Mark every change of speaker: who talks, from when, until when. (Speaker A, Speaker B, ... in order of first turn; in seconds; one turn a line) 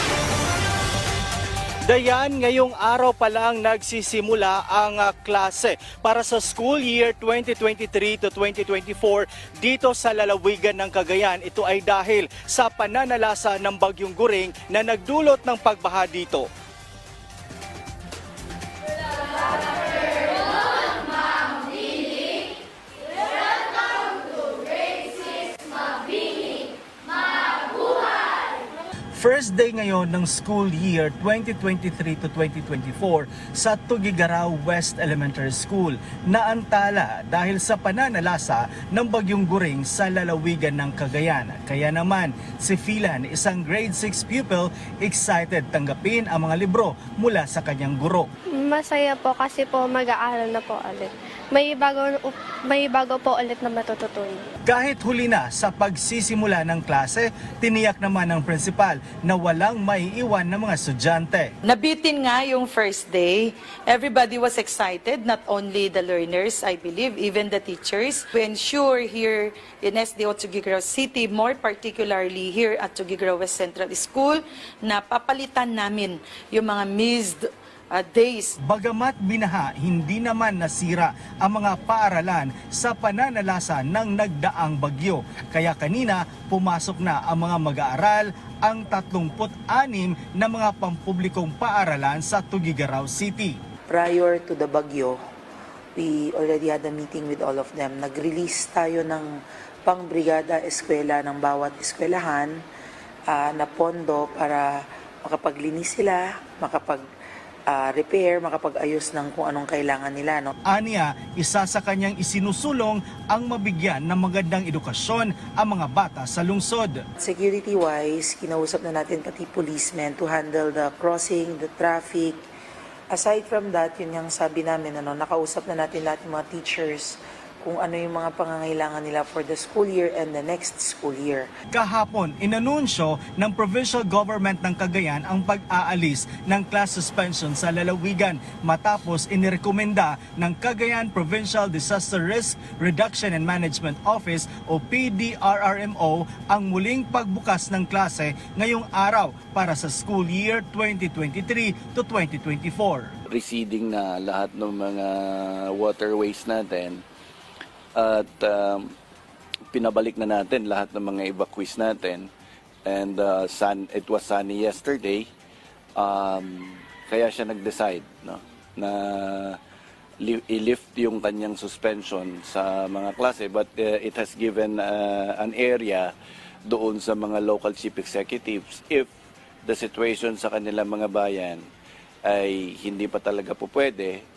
Speaker A: 1.8-16.5
Speaker A: 29.1-48.3
Speaker B: 48.5-54.4
Speaker A: 54.7-61.5
Speaker C: 61.7-78.5
Speaker A: 78.6-93.6
Speaker D: 93.9-95.2
Speaker D: 96.0-102.6
Speaker D: 103.3-107.0
Speaker D: 107.7-110.5
Speaker A: 110.7-117.0
Speaker D: 117.2-122.4
Speaker D: 123.1-131.5
Speaker A: 131.7-153.1
Speaker E: 153.3-157.0
Speaker E: 158.0-158.9
Speaker E: 159.7-162.3
Speaker E: 162.8-165.3
Speaker E: 166.0-169.6
Speaker E: 170.2-176.1
Speaker E: 176.7-179.1
Speaker E: 179.7-181.7
Speaker E: 182.3-184.2